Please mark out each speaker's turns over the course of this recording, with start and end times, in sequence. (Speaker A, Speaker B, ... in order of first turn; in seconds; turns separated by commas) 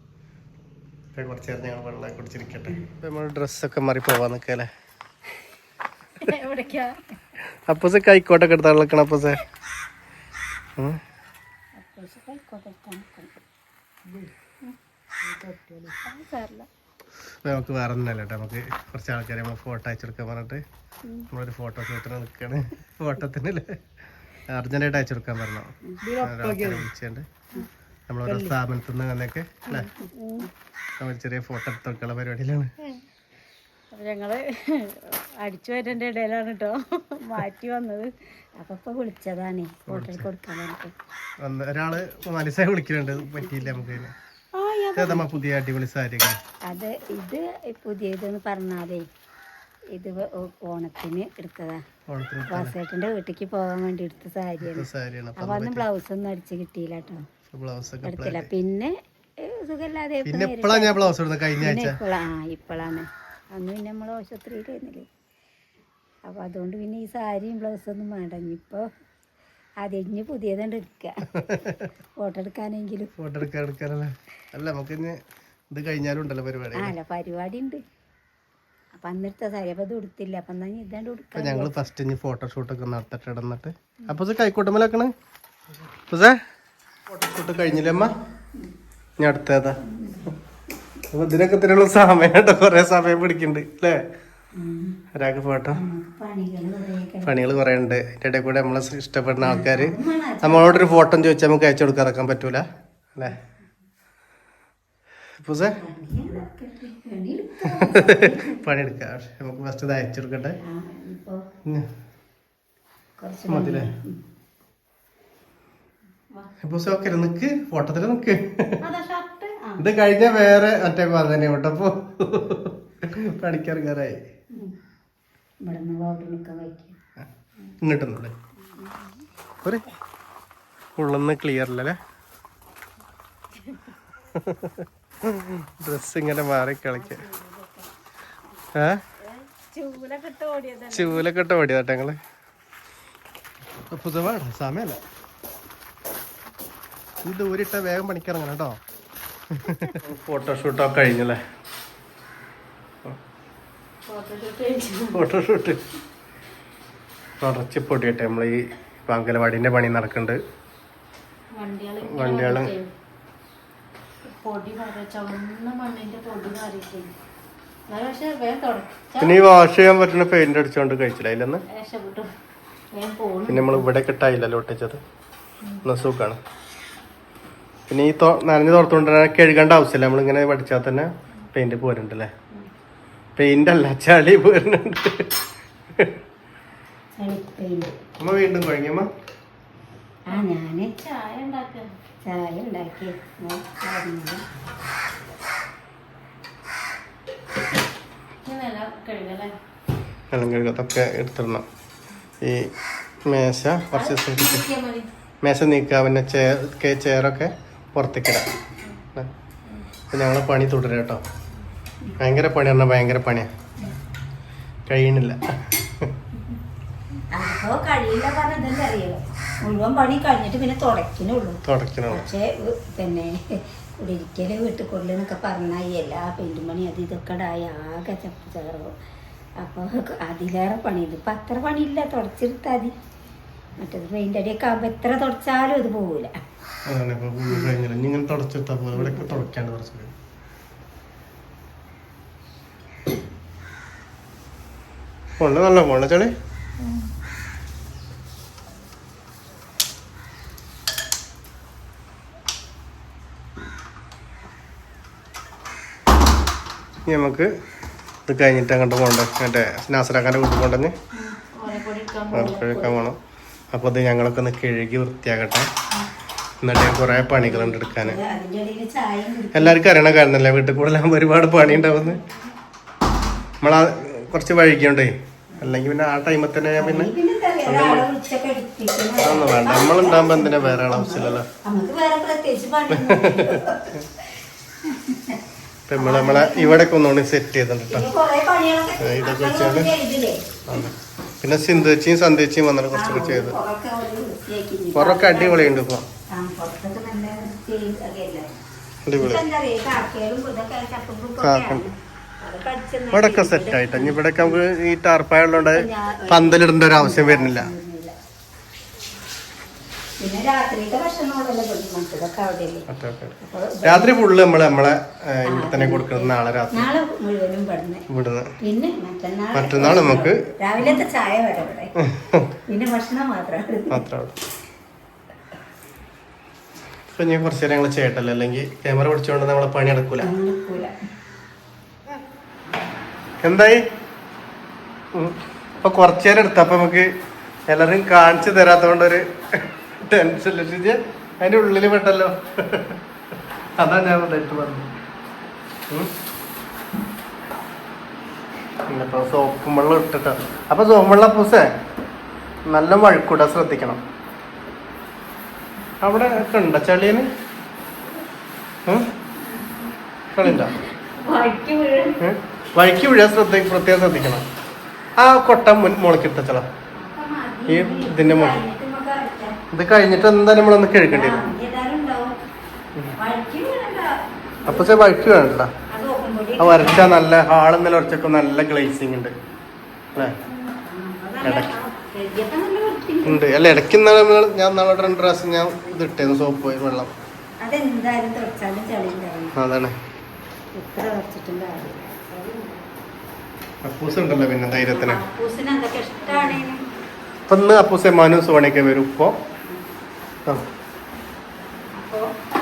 Speaker A: 1.1-4.7, Speaker B: 6.2-7.0, Speaker A: 7.7-9.4, Speaker C: 11.8-13.4, Speaker C: 16.1-16.6, Speaker A: 17.4-20.6, Speaker A: 21.3-23.8, Speaker A: 24.5-27.2, Speaker C: 25.9-26.2, Speaker A: 28.1-29.9, Speaker C: 28.2-28.6, Speaker B: 29.7-30.4, Speaker C: 30.0-30.5, Speaker A: 31.0-32.7, Speaker B: 33.9-38.1, Speaker C: 38.6-40.9, Speaker A: 39.9-40.3, Speaker A: 41.4-44.1, Speaker B: 44.5-45.3, Speaker A: 45.0-46.4, Speaker C: 46.7-49.1, Speaker C: 49.9-51.8, Speaker A: 52.1-52.8, Speaker C: 52.5-57.2, Speaker A: 54.7-55.9, Speaker A: 57.5-58.5, Speaker C: 58.0-65.1, Speaker A: 60.2-62.0, Speaker C: 66.2-68.9, Speaker C: 69.8-71.3, Speaker A: 71.4-71.9, Speaker C: 72.2-73.1, Speaker A: 73.2-75.2, Speaker A: 75.7-76.9, Speaker C: 76.8-77.8, Speaker C: 79.0-81.7, Speaker A: 81.4-85.1, Speaker A: 86.1-86.4, Speaker A: 87.1-88.1, Speaker A: 89.2-89.8, Speaker C: 89.8-90.3, Speaker A: 91.1-94.0, Speaker C: 94.5-95.0, Speaker A: 95.1-95.8, Speaker C: 95.8-97.5, Speaker A: 97.2-103.4, Speaker C: 99.4-101.0, Speaker A: 105.4-105.8, Speaker C: 105.6-108.6, Speaker A: 107.8-110.6, Speaker C: 110.6-111.4, Speaker C: 113.2-114.2, Speaker A: 113.5-113.9, Speaker A: 116.6-118.8, Speaker B: 118.8-119.8, Speaker A: 119.8-124.2, Speaker C: 125.7-127.0, Speaker A: 127.8-128.3, Speaker C: 128.6-129.0, Speaker A: 131.0-132.0, Speaker A: 134.3-137.2, Speaker C: 136.9-137.9, Speaker A: 138.8-139.0, Speaker B: 139.2-141.2, Speaker A: 140.9-142.2, Speaker A: 143.8-145.0, Speaker A: 147.2-148.8, Speaker A: 149.5-151.4, Speaker B: 154.1-155.2, Speaker A: 155.1-155.8, Speaker A: 157.4-160.4, Speaker B: 161.5-162.9, Speaker A: 162.0-162.7, Speaker B: 164.2-167.1, Speaker B: 167.9-169.4, Speaker A: 169.2-171.6, Speaker B: 171.7-172.3, Speaker B: 172.9-173.9, Speaker A: 173.5-175.0, Speaker A: 175.8-176.4, Speaker A: 177.9-182.3, Speaker A: 183.4-185.3, Speaker C: 187.2-187.9, Speaker A: 188.2-189.1, Speaker C: 190.3-190.9, Speaker B: 190.3-191.9, Speaker C: 192.2-194.4, Speaker B: 198.4-199.5, Speaker A: 200.3-201.7, Speaker A: 202.4-202.7, Speaker A: 203.2-204.6, Speaker B: 203.9-205.1, Speaker A: 205.4-208.5, Speaker A: 210.1-211.2, Speaker A: 212.2-213.5, Speaker A: 214.9-216.1, Speaker C: 217.3-228.9, Speaker A: 221.6-222.2, Speaker C: 229.6-232.9, Speaker C: 233.8-236.3, Speaker A: 236.9-240.1, Speaker C: 239.0-239.5, Speaker A: 245.4-246.3, Speaker A: 257.1-257.5, Speaker A: 258.3-260.9, Speaker B: 261.1-262.6, Speaker C: 262.3-263.0, Speaker A: 262.3-263.2, Speaker A: 263.7-265.7, Speaker A: 266.6-268.2, Speaker C: 267.4-269.8, Speaker A: 269.5-272.2, Speaker A: 273.6-277.1, Speaker C: 276.8-284.2, Speaker A: 277.6-278.1, Speaker A: 279.2-281.5, Speaker A: 282.9-284.0, Speaker C: 284.9-285.4, Speaker A: 285.9-288.1, Speaker C: 286.0-286.9, Speaker C: 287.9-290.4, Speaker A: 289.0-289.9, Speaker A: 290.7-293.6, Speaker C: 292.9-295.8, Speaker A: 294.9-296.1, Speaker C: 296.3-298.5, Speaker A: 299.1-299.4, Speaker C: 299.2-304.5, Speaker A: 301.4-301.9, Speaker A: 303.1-307.7, Speaker C: 305.6-308.1, Speaker C: 310.2-312.9, Speaker A: 312.9-316.9, Speaker C: 313.4-314.2, Speaker C: 315.5-318.1, Speaker A: 318.1-318.5, Speaker C: 318.6-321.9, Speaker A: 319.5-321.0, Speaker A: 322.0-322.5, Speaker C: 322.7-324.0, Speaker A: 323.9-324.4, Speaker A: 327.1-330.3, Speaker C: 330.2-330.9, Speaker A: 333.4-333.8, Speaker A: 335.1-337.1, Speaker A: 337.7-343.0, Speaker A: 343.8-344.9, Speaker A: 348.9-351.8, Speaker A: 352.7-354.0, Speaker A: 356.0-357.3, Speaker A: 360.3-360.8, Speaker C: 361.2-362.2, Speaker A: 362.2-364.4, Speaker A: 365.2-366.7, Speaker C: 366.9-369.6, Speaker A: 367.7-368.6, Speaker A: 369.7-371.5, Speaker C: 371.1-372.4, Speaker C: 373.1-375.3, Speaker A: 374.6-375.7, Speaker C: 375.9-377.1, Speaker A: 376.6-379.3, Speaker C: 380.4-383.4, Speaker A: 381.4-381.7, Speaker A: 383.2-387.1, Speaker C: 387.6-389.6, Speaker A: 389.6-390.0, Speaker C: 390.8-392.8, Speaker A: 393.8-395.2, Speaker C: 394.9-396.8, Speaker A: 397.5-399.4, Speaker C: 401.9-402.3